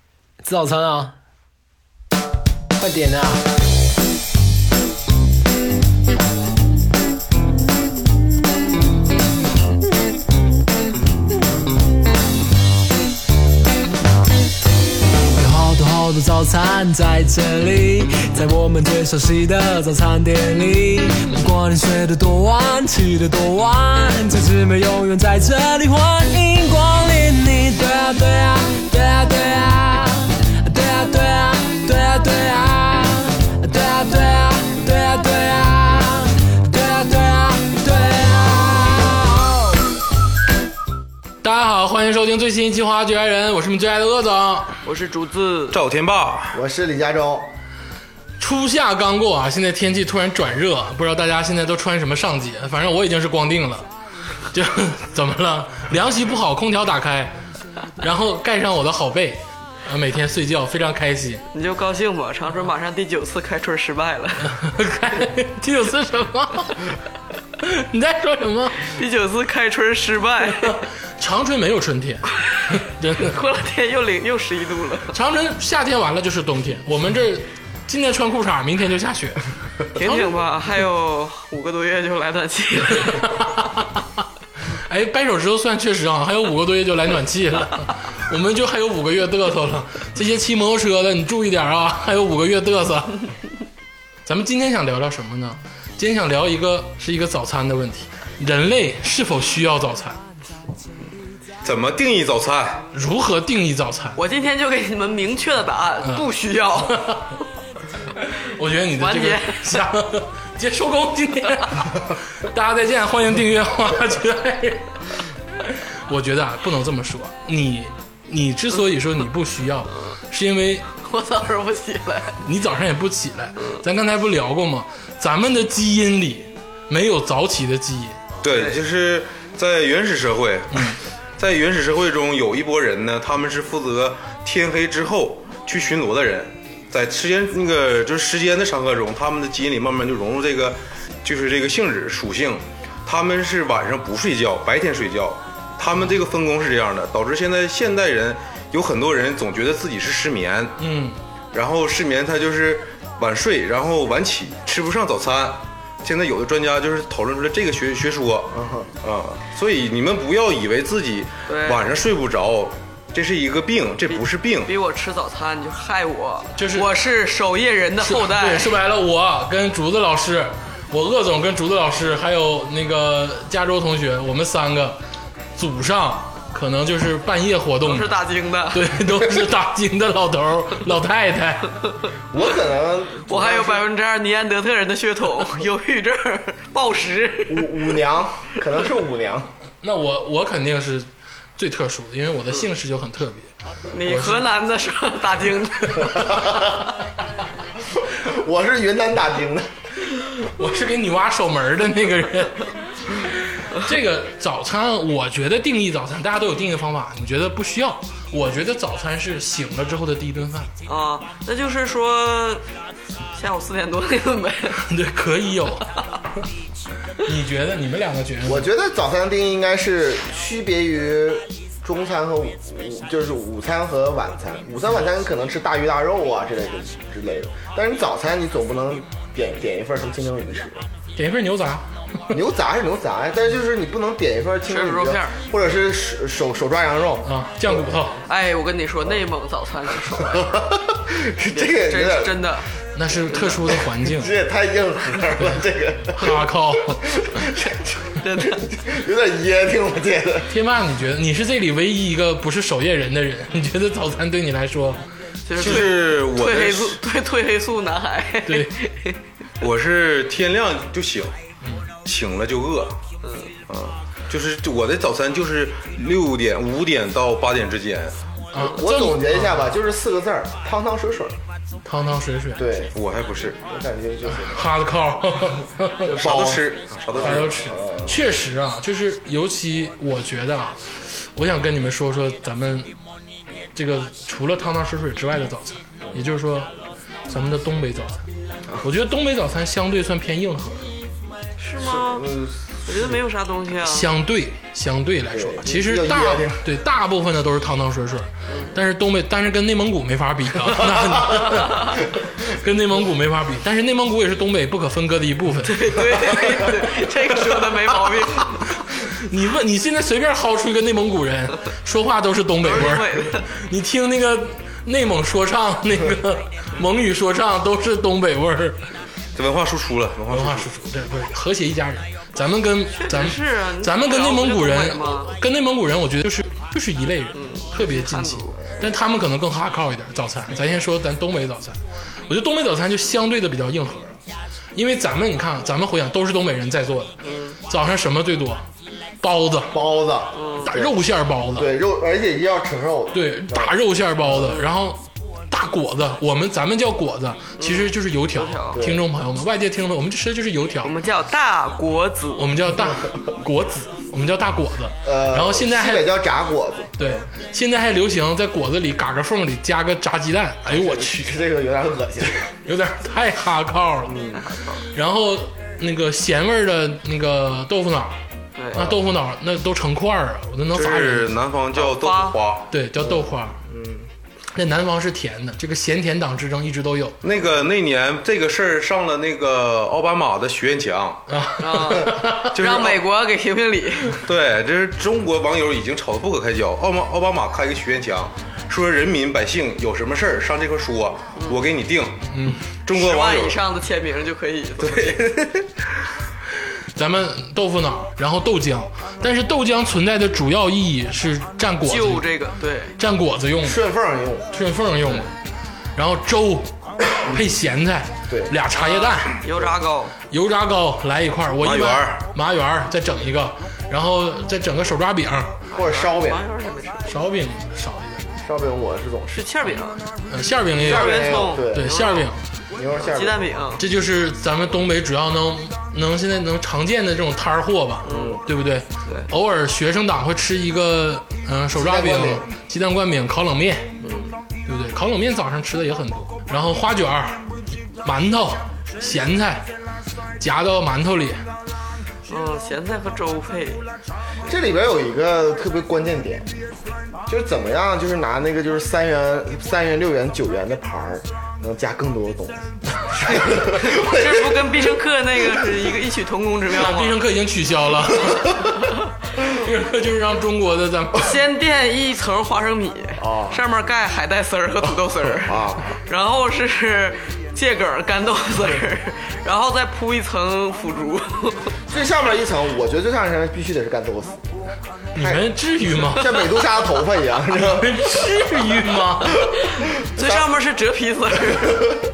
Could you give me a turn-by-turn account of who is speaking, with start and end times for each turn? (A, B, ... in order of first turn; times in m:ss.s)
0:00.4-0:01.2 A
0:02.8-0:03.4 A
0:15.4-0:39.8 A
0:41.4-0:44.8 B
0:44.8-0:45.8 C
0:45.7-0:46.6 D
0:46.5-0:47.5 E
0:48.4-0:53.9 B
0:54.5-0:57.4 B
0:58.0-1:01.4 B
1:01.5-1:04.5 C
1:04.4-1:06.9 B
1:07.6-1:08.9 B
1:08.8-1:10.8 C
1:10.6-1:13.4 B
1:12.5-1:15.1 C
1:15.1-1:19.4 B
1:19.9-1:23.3 C
1:23.0-1:24.0 B
1:24.9-1:33.2 B
1:34.3-1:40.2 B
1:41.6-1:42.8 D
1:42.9-1:44.2 B
1:44.2-1:47.2 C
1:46.9-1:47.4 B
1:48.2-1:55.0 B
1:49.0-1:49.9 C
1:55.6-2:00.9 B
2:01.0-2:02.4 C
2:02.4-2:08.2 B
2:08.4-2:30.8 D
2:08.5-2:08.8 C
2:30.8-2:31.2 B
2:31.5-2:44.7 D
2:38.5-2:38.9 E
2:41.5-2:42.0 C
2:44.1-2:48.8 C
2:46.6-2:46.9 B
2:48.0-2:55.0 B
2:55.6-2:58.1 B
2:57.8-2:59.2 C
2:58.7-3:01.7 B
3:02.3-3:03.9 E
3:03.3-3:08.0 C
3:07.5-3:09.5 E
3:09.8-3:13.5 B
3:13.9-3:16.5 C
3:14.0-3:14.4 B
3:16.0-3:16.4 B
3:16.3-3:16.7 E
3:18.0-3:19.7 E
3:20.6-3:30.7 B
3:30.9-3:32.6 C
3:33.3-3:34.8 C
3:34.8-3:35.9 B
3:37.2-3:38.7 B
3:38.4-3:50.9 E
3:51.2-3:51.9 B
3:52.3-3:57.9 E
3:54.7-3:55.4 C
3:57.2-3:58.2 B
3:58.3-4:00.7 C
4:00.1-4:02.6 E
4:01.5-4:02.7 C
4:03.0-4:04.4 B
4:03.4-4:10.5 E
4:06.1-4:07.2 B
4:08.2-4:08.6 C
4:10.5-4:15.0 B
4:15.5-4:19.2 C
4:15.6-4:17.0 D
4:18.5-4:18.7 B
4:19.6-4:21.3 D
4:22.0-4:23.0 D
4:23.2-4:23.5 C
4:23.7-4:28.2 D
4:28.5-4:29.8 B
4:28.6-4:31.4 E
4:31.8-4:32.6 B
4:32.6-4:32.9 E
4:32.9-4:33.6 D
4:33.7-4:34.7 E
4:34.3-4:36.2 B
4:36.0-4:38.2 E
4:36.2-4:37.6 D
4:37.2-4:42.9 B
4:43.8-4:46.7 B
4:47.3-4:48.2 B
4:48.8-4:50.9 B
4:51.6-4:52.3 C
4:51.8-4:53.2 E
4:52.9-4:54.1 C
4:53.8-5:06.7 B
4:55.3-4:56.6 E
5:05.6-5:08.7 C
5:08.8-5:18.8 B
5:12.6-5:13.4 C
5:19.4-5:20.7 D
5:20.3-5:34.2 B
5:22.9-5:25.4 C
5:27.3-5:28.6 C
5:34.8-5:38.6 B
5:37.2-5:37.6 C
5:39.2-5:39.8 B
5:39.7-5:41.0 E
5:40.3-5:40.8 C
5:40.7-5:41.8 B
5:41.5-5:43.7 E
5:43.1-5:50.9 B
5:44.3-5:44.7 C
5:47.6-5:48.8 C
5:48.8-5:49.0 E
5:50.8-5:52.7 C
5:52.4-5:56.1 B
5:55.0-5:57.2 E
5:57.0-6:01.4 B
6:00.6-6:02.5 E
6:02.6-6:04.2 B
6:04.1-6:04.4 E
6:04.3-6:04.9 C
6:04.9-6:08.2 B
6:08.6-6:08.9 C
6:08.7-6:11.4 B
6:10.7-6:12.7 D
6:11.7-6:12.4 C
6:12.7-6:13.6 B
6:13.0-6:14.1 E
6:14.5-6:17.2 B
6:17.2-6:21.2 D
6:21.3-6:22.6 B
6:21.6-6:24.2 C
6:22.6-6:23.0 D
6:24.2-6:32.2 D
6:31.4-6:31.7 C
6:32.3-6:32.7 B
6:32.8-6:33.6 D
6:32.9-6:35.3 C
6:34.8-6:35.7 D
6:37.0-6:42.2 B
6:41.8-6:43.0 C
6:43.0-6:43.8 B
6:43.6-6:44.5 E
6:44.5-6:45.3 B
6:46.0-6:49.4 B
6:48.3-6:48.6 E
6:48.7-6:50.1 C
6:50.3-6:55.6 B
6:51.6-6:52.2 D
6:55.7-6:57.1 C
6:55.7-6:56.4 E
6:57.1-6:58.2 B
6:58.4-6:59.6 E
6:59.3-7:00.0 C
7:00.3-7:02.4 B
7:00.7-7:02.1 E
7:00.8-7:02.3 C
7:02.8-7:03.5 E
7:02.9-7:03.8 C
7:03.8-7:14.0 B
7:08.0-7:08.4 C
7:08.1-7:08.4 E
7:11.7-7:12.5 E
7:14.0-7:14.4 C
7:14.7-7:17.5 B
7:18.0-7:19.7 B
7:20.4-7:21.4 B
7:22.3-7:23.8 C
7:24.5-7:26.5 E
7:27.3-7:35.8 E
7:33.2-7:37.2 C
7:36.7-7:38.7 B
7:39.5-7:41.3 B
7:41.2-7:51.7 C
7:43.2-7:43.6 E
7:45.3-7:46.0 E
7:51.9-7:54.5 E
7:55.2-7:56.4 B
7:55.2-7:55.5 E
7:56.0-7:58.5 E
7:57.5-7:59.5 B
7:59.4-8:02.0 C
8:00.0-8:00.5 E